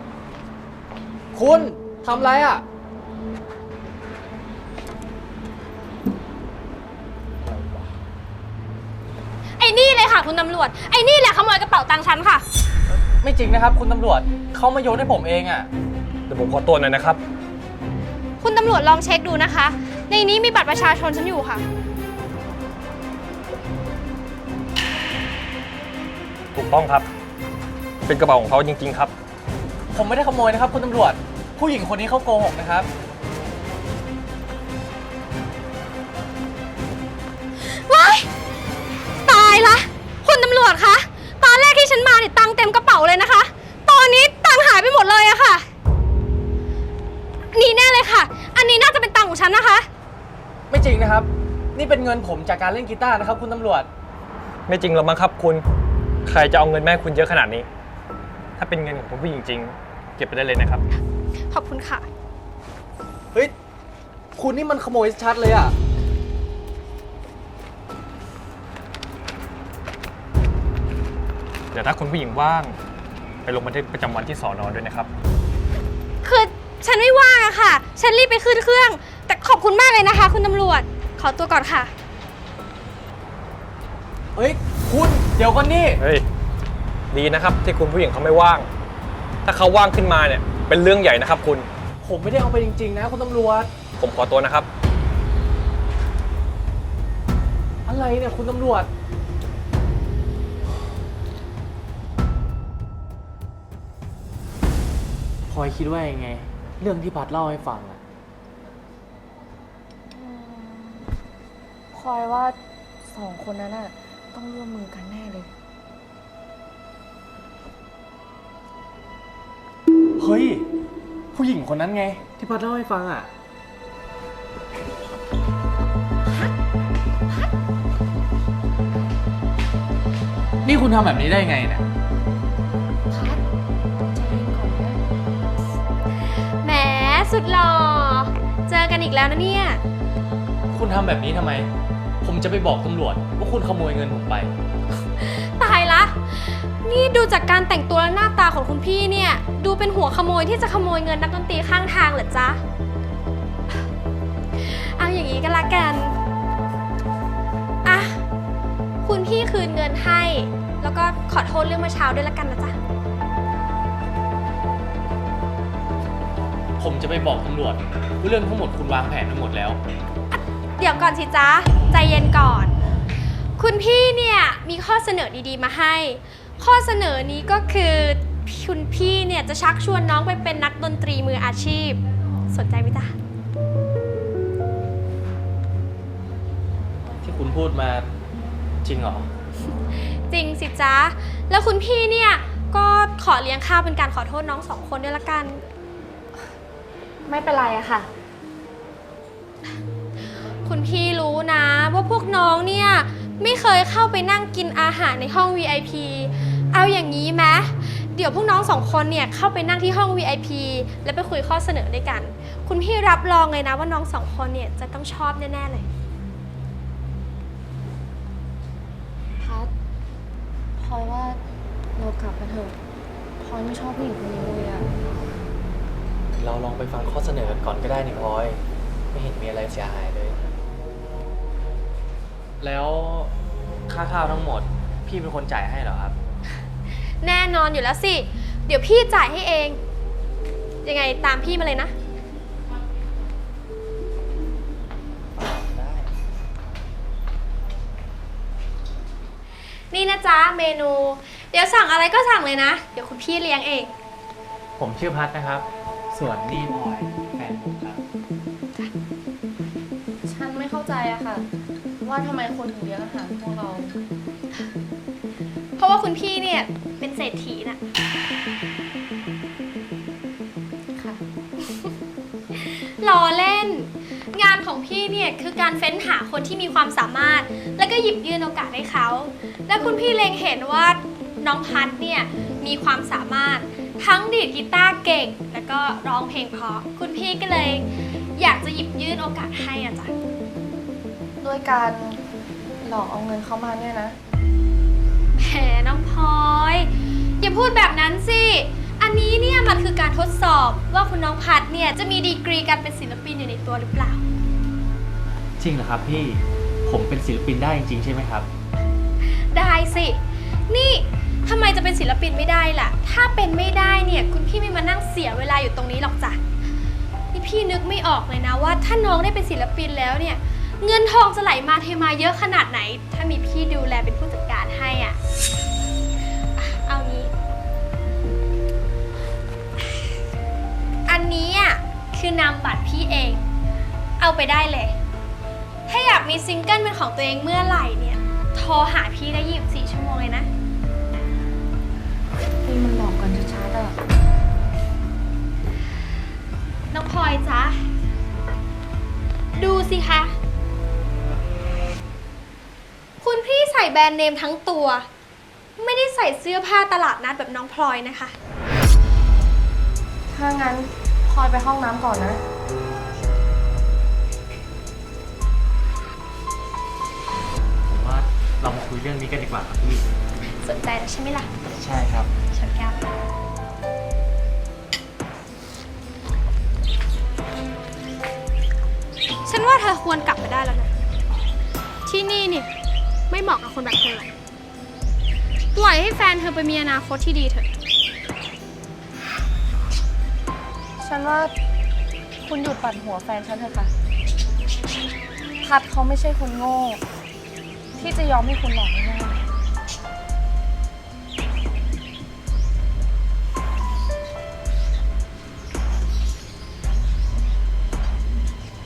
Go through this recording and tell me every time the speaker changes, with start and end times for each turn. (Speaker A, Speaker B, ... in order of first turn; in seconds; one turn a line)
Speaker A: 1.3-2.6
Speaker B: 9.6-12.4
Speaker A: 12.9-15.7
Speaker C: 16.3-17.2
Speaker B: 18.4-21.6
Speaker C: 26.6-27.1
Speaker C: 28.1-29.1
Speaker A: 29.9-32.9
Speaker B: 37.6-38.3
Speaker B: 39.2-45.6
Speaker B: 47.5-49.9
Speaker A: 50.7-53.9
Speaker C: 54.7-55.6
Speaker C: 56.2-57.7
Speaker C: 58.6-60.8
Speaker B: 61.5-62.1
Speaker A: 64.4-65.7
Speaker C: 71.7-72.8
Speaker C: 73.5-75.1
Speaker B: 76.2-81.9
Speaker A: 84.3-86.0
Speaker C: 86.0-86.3
Speaker C: 87.1-88.7
Speaker C: 89.5-91.7
Speaker A: 92.0-93.7
Speaker C: 94.0-94.7
Speaker A: 97.9-98.9
Speaker A: 105.5-108.0
Speaker D: 110.1-111.1
Speaker D: 111.9-115.5
Speaker A: 120.2-120.7
Speaker A: 121.3-123.3
Speaker D: 126.3-126.5
Speaker A: 130.6-131.9
Speaker D: 133.1-133.4
Speaker D: 134.1-135.0
Speaker B: 136.3-139.8
Speaker A: 140.7-141.7
Speaker A: 142.2-144.5
Speaker B: 145.2-152.6
Speaker B: 154.6-156.2
Speaker B: 157.8-158.2
Speaker B: 159.0-162.8
Speaker A: 166.8-169.8
Speaker B: 170.8-172.8
Speaker B: 173.6-183.2
Speaker A: 187.2-188.1
Speaker A: 188.8-189.3
Speaker B: 189.9-195.6
Speaker D: 197.2-198.1
Speaker B: 200.5-215.9
Speaker D: 219.4-219.7
Speaker D: 220.8-221.4
Speaker D: 222.0-222.8
Speaker D: 223.4-224.9
Speaker A: 226.3-228.6
Speaker A: 229.1-230.4
Speaker A: 232.6-233.3
Speaker A: 233.9-236.2
Speaker B: 237.2-239.8
Speaker B: 240.8-241.9
Speaker A: 245.8-246.0
Speaker B: 249.9-253.9
Speaker A: 254.8-258.0
Speaker D: 260.2-261.5
Speaker D: 262.0-263.9
Speaker B: 265.8-267.8
Speaker D: 270.9-271.2
Speaker B: 271.6-271.9
Speaker B: 272.5-290.1
Speaker D: 291.4-292.2
Speaker D: 292.8-294.2
Speaker B: 295.4-304.2
Speaker A: 305.6-308.5
Speaker B: 309.3-316.4
Speaker B: 317.3-325.2
Speaker B: 326.4-327.3
Speaker B: 331.1-333.4
Speaker B: 334.2-335.0
Speaker B: 335.9-340.5
Speaker D: 342.6-344.0
Speaker B: 346.9-347.9
Speaker B: 349.6-350.3
Speaker B: 353.2-355.1
Speaker B: 355.8-358.4
Speaker D: 360.3-362.4
Speaker A: 367.9-370.1
Speaker B: 370.6-371.5
Speaker A: 371.7-372.3
Speaker B: 372.5-373.0
Speaker B: 379.4-380.9
Speaker B: 382.1-382.7
Speaker B: 383.3-384.3
Speaker B: 385.7-387.7
Speaker D: 391.0-391.5
Speaker D: 392.4-393.9
Speaker D: 395.6-397.0
Speaker D: 397.9-399.4